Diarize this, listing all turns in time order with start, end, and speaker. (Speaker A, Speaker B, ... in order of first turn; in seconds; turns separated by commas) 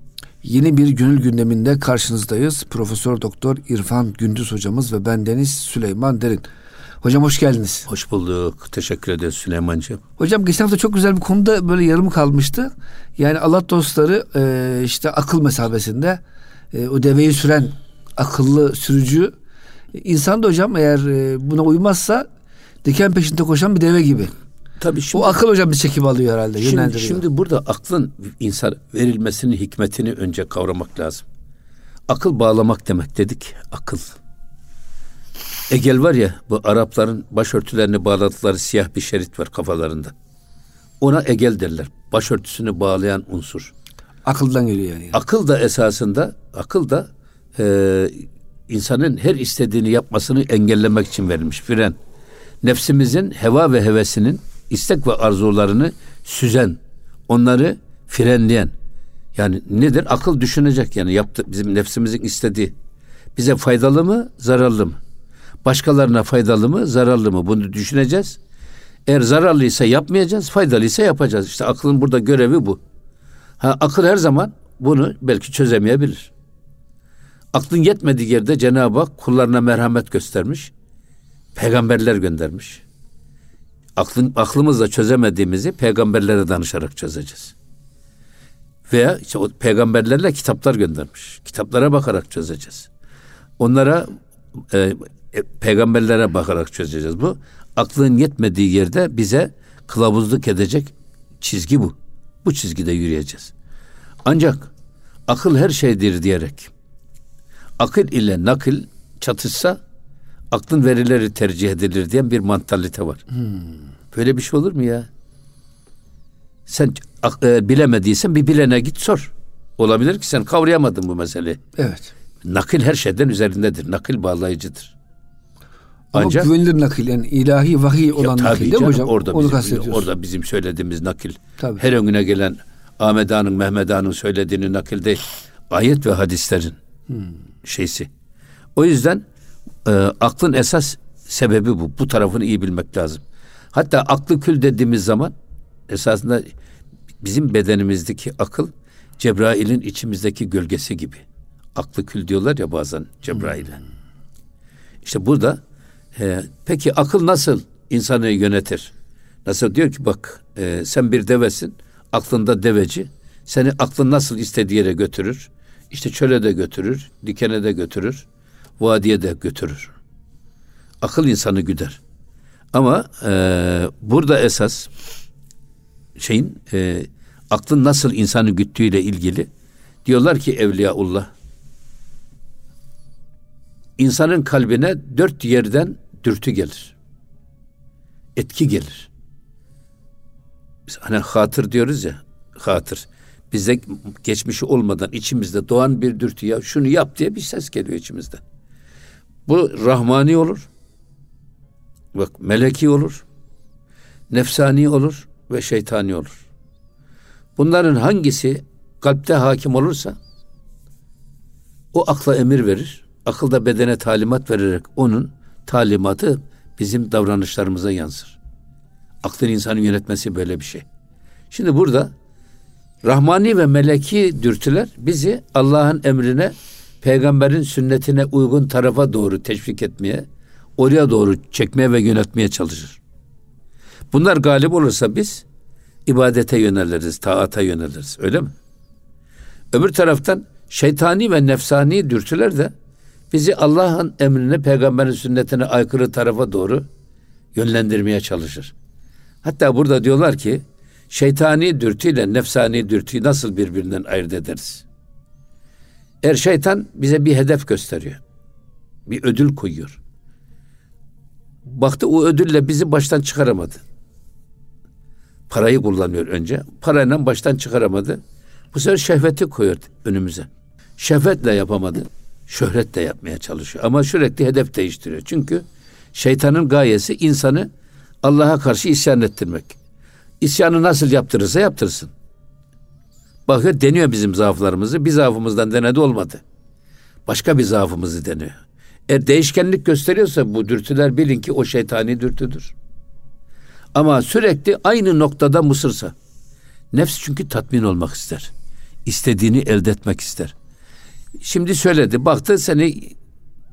Speaker A: 0.4-6.5, Speaker A: 7.0-7.9, Speaker B: 7.9-10.0, Speaker A: 10.2-16.2, Speaker A: 16.7-19.3, Speaker A: 19.9-22.3, Speaker A: 22.8-24.3, Speaker B: 24.8-25.4, Speaker A: 25.1-27.2, Speaker B: 26.6-31.3, Speaker B: 32.1-34.1, Speaker B: 35.7-40.1, Speaker B: 41.0-43.7, Speaker A: 44.3-45.2, Speaker B: 45.1-52.0, Speaker B: 52.6-58.7, Speaker B: 59.4-62.7, Speaker B: 63.4-65.0, Speaker B: 65.6-68.4, Speaker B: 69.1-72.8, Speaker B: 73.6-76.3, Speaker B: 77.5-80.7, Speaker B: 81.5-82.8, Speaker B: 84.0-87.5, Speaker B: 88.9-92.9, Speaker B: 93.6-103.5, Speaker B: 104.2-104.7, Speaker B: 105.3-106.7, Speaker B: 107.8-109.8, Speaker B: 110.5-113.2, Speaker B: 114.1-115.1, Speaker B: 116.7-121.6, Speaker A: 121.8-122.1, Speaker B: 122.4-124.9, Speaker A: 126.1-130.1, Speaker B: 126.1-126.5, Speaker B: 128.2-136.8, Speaker B: 137.6-138.1, Speaker B: 138.8-139.2, Speaker B: 139.8-145.3, Speaker B: 145.9-146.5, Speaker B: 147.2-153.8, Speaker B: 155.0-155.6, Speaker B: 156.2-158.9, Speaker B: 159.4-168.2, Speaker B: 168.8-169.9, Speaker B: 171.0-172.0, Speaker B: 172.7-174.9, Speaker B: 176.2-179.5, Speaker B: 180.1-181.3, Speaker B: 184.0-186.9, Speaker B: 188.4-189.1, Speaker B: 190.9-198.4, Speaker B: 199.5-200.7, Speaker B: 202.1-203.2, Speaker B: 204.3-206.4, Speaker B: 207.6-210.2, Speaker B: 211.9-218.4, Speaker B: 219.2-220.9, Speaker B: 221.5-222.1, Speaker B: 223.0-230.3, Speaker B: 230.8-233.0, Speaker B: 234.1-235.4, Speaker B: 236.1-238.6, Speaker B: 239.7-242.7, Speaker B: 243.3-246.9, Speaker B: 247.6-248.7, Speaker B: 249.4-254.8, Speaker B: 256.2-258.2, Speaker B: 259.1-260.0, Speaker B: 261.6-263.8, Speaker B: 265.5-268.2, Speaker B: 268.7-277.7, Speaker B: 278.2-279.8, Speaker B: 280.4-282.1, Speaker B: 283.5-286.4, Speaker B: 287.3-288.6, Speaker B: 289.1-292.8, Speaker B: 293.9-296.1, Speaker B: 296.9-298.5, Speaker B: 299.1-300.6, Speaker B: 301.4-303.1